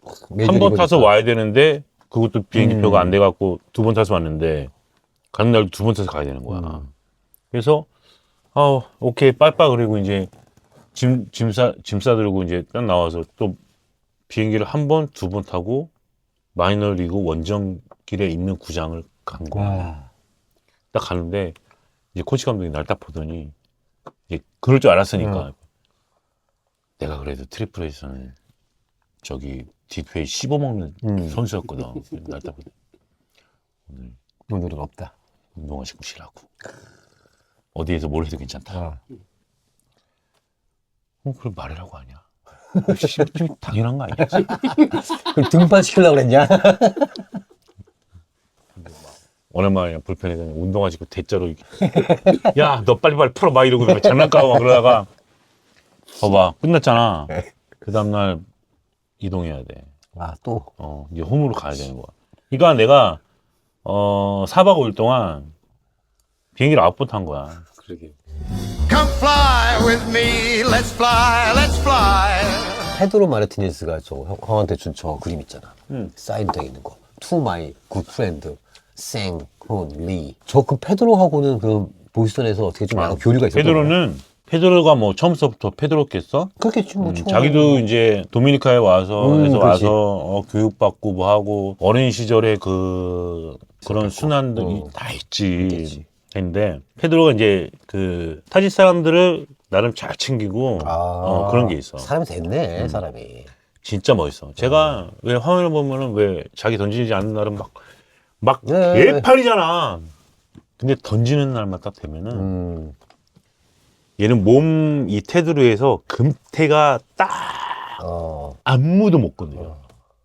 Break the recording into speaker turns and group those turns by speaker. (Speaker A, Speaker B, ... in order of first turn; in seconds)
Speaker A: 0.3-1.1, 2.5-3.2, 6.5-6.8, 19.5-20.1, 25.2-25.5, 31.0-31.4, 34.5-35.1, 38.7-39.0, 44.4-47.3, 51.8-52.4, 54.0-54.9, 60.1-60.7, 67.8-68.1, 72.8-84.0, 86.6-87.9, 89.2-90.0, 93.8-94.9, 95.6-96.0, 100.8-103.5, 104.6-104.9, 108.7-109.3, 112.3-113.0, 118.0-118.6
Speaker B: 0.4-4.7, 5.3-6.9, 7.5-7.9, 8.5-10.3, 10.9-13.6, 14.3-15.9, 16.6-19.9, 20.9-21.6, 22.1-23.5, 24.3-25.6, 27.0-28.4, 29.2-32.7, 33.9-34.2, 35.6-36.5, 37.7-38.8, 41.2-42.2, 42.8-44.6, 49.5-55.1, 56.2-58.5, 59.2-59.9, 60.8-63.2, 63.8-65.5, 66.6-67.7, 82.9-102.1, 102.8-103.0, 103.8-107.8, 108.4-110.1, 110.8-112.5, 114.2-118.0, 118.7-119.8
Speaker C: 68.8-72.7